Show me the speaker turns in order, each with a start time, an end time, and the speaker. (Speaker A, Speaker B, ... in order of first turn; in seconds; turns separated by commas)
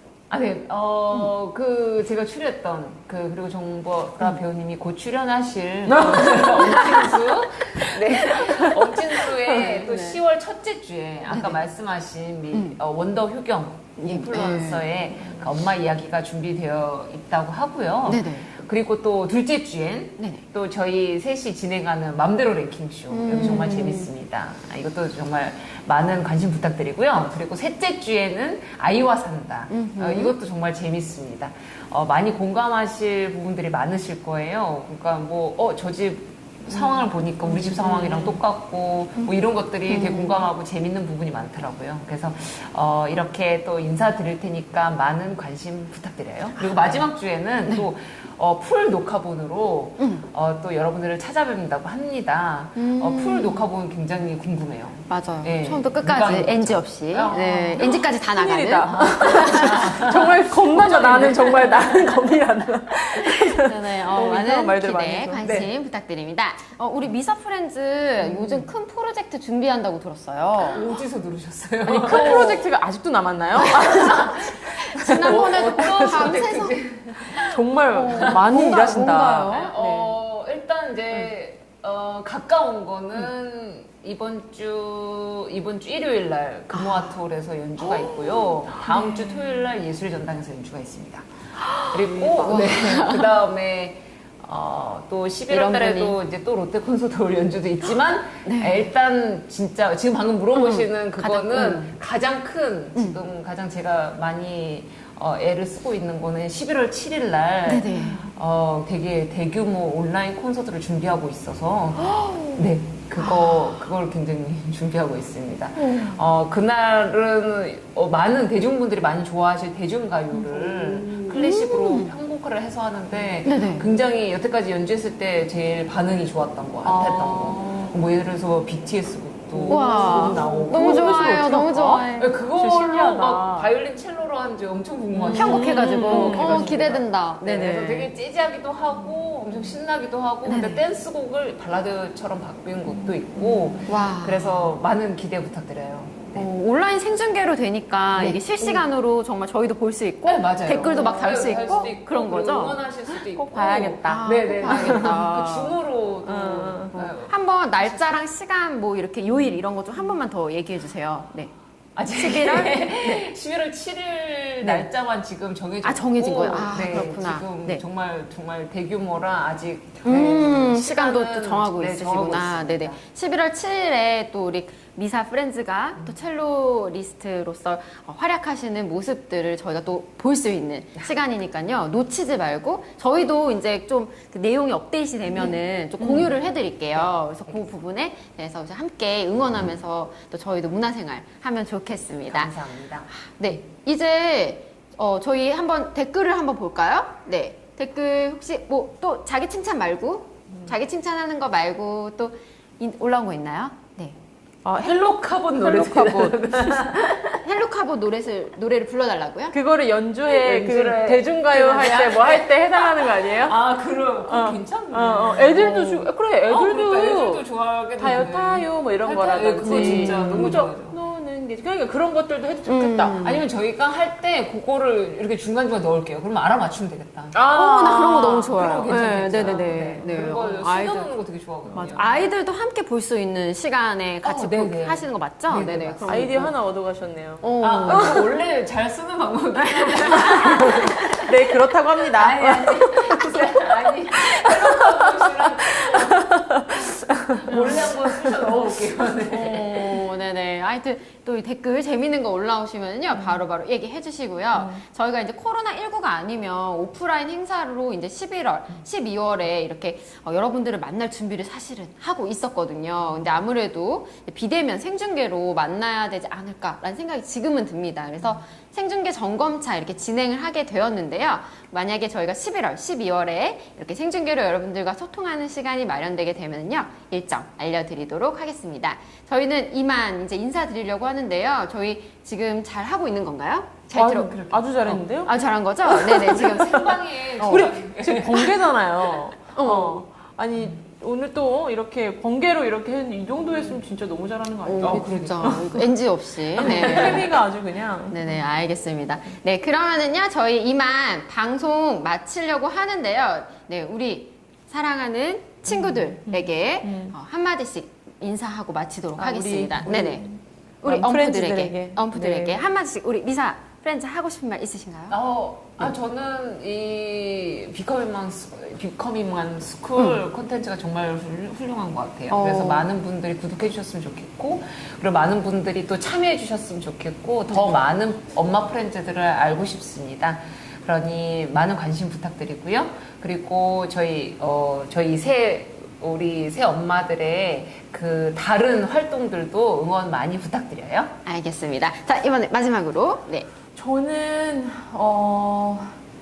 Speaker A: 0.3-57.4, Speaker B: 5.9-7.3, Speaker B: 7.9-9.7, Speaker C: 9.5-10.2, Speaker C: 11.3-11.6, Speaker C: 12.5-12.8, Speaker C: 14.0-14.9, Speaker B: 15.2-15.5, Speaker C: 18.1-18.5, Speaker C: 20.2-20.4, Speaker C: 23.1-24.1, Speaker C: 29.7-30.4, Speaker C: 39.9-40.4, Speaker C: 46.6-47.1, Speaker C: 47.6-47.9, Speaker C: 50.0-50.3, Speaker C: 52.8-53.7, Speaker C: 55.1-59.9, Speaker B: 57.2-65.7, Speaker A: 58.9-62.0, Speaker C: 63.2-70.8, Speaker B: 68.2-68.6, Speaker A: 70.7-72.7, Speaker B: 71.8-76.4, Speaker C: 72.0-72.6, Speaker C: 73.7-76.8, Speaker A: 75.1-91.3, Speaker B: 77.3-80.2, Speaker C: 77.4-79.7, Speaker C: 86.7-87.2, Speaker B: 87.8-89.5, Speaker C: 91.7-93.4, Speaker A: 91.9-131.5, Speaker B: 92.2-92.8, Speaker C: 95.5-96.2, Speaker C: 98.5-98.9, Speaker C: 100.5-102.0, Speaker C: 103.0-103.2, Speaker C: 107.7-108.3, Speaker C: 112.0-112.6, Speaker C: 113.2-113.9, Speaker C: 120.5-122.2, Speaker C: 123.5-123.9, Speaker B: 126.8-128.0, Speaker B: 129.5-133.7, Speaker C: 129.7-132.4, Speaker A: 132.2-146.5, Speaker B: 135.1-136.9, Speaker C: 135.3-138.1, Speaker C: 140.4-140.8, Speaker B: 143.4-143.8, Speaker C: 143.9-144.8, Speaker C: 146.3-152.8, Speaker A: 148.2-148.8, Speaker A: 150.2-158.2, Speaker B: 150.7-151.9, Speaker B: 153.1-155.2, Speaker C: 154.0-155.8, Speaker B: 156.2-157.0, Speaker C: 156.9-161.5, Speaker A: 162.0-173.0, Speaker C: 162.1-163.3, Speaker C: 165.8-167.8, Speaker C: 170.0-192.6, Speaker A: 186.9-187.6, Speaker A: 192.3-193.1, Speaker C: 193.1-204.2, Speaker B: 204.7-207.0, Speaker A: 204.8-207.4, Speaker C: 207.4-209.6, Speaker B: 209.5-213.6, Speaker A: 210.3-215.8, Speaker B: 214.2-223.2, Speaker C: 215.4-216.1, Speaker A: 216.5-221.0, Speaker C: 219.6-220.6, Speaker C: 222.7-223.4, Speaker A: 223.2-227.4, Speaker B: 227.3-228.6, Speaker C: 227.5-231.2, Speaker A: 228.5-232.1, Speaker B: 231.7-232.2, Speaker C: 231.8-236.5, Speaker A: 234.2-236.5, Speaker B: 236.0-238.2, Speaker C: 237.4-238.2, Speaker A: 237.6-241.6, Speaker C: 239.6-241.2, Speaker B: 240.4-243.4, Speaker A: 242.1-246.3, Speaker B: 244.1-248.5, Speaker A: 247.4-249.9, Speaker C: 247.5-247.8, Speaker C: 249.3-286.9, Speaker B: 253.1-253.4, Speaker B: 254.5-254.8, Speaker B: 283.9-285.3, Speaker B: 285.9-295.9, Speaker A: 286.2-288.5, Speaker C: 287.4-287.7, Speaker C: 289.6-290.0, Speaker C: 294.6-297.4, Speaker A: 294.8-295.7, Speaker B: 296.6-298.3, Speaker A: 296.6-297.3, Speaker C: 298.1-310.3, Speaker B: 305.8-307.2, Speaker B: 309.2-312.6, Speaker C: 310.8-315.2, Speaker A: 315.1-341.1, Speaker C: 320.0-320.2, Speaker C: 322.3-322.9, Speaker C: 341.2-343.5, Speaker B: 343.8-346.0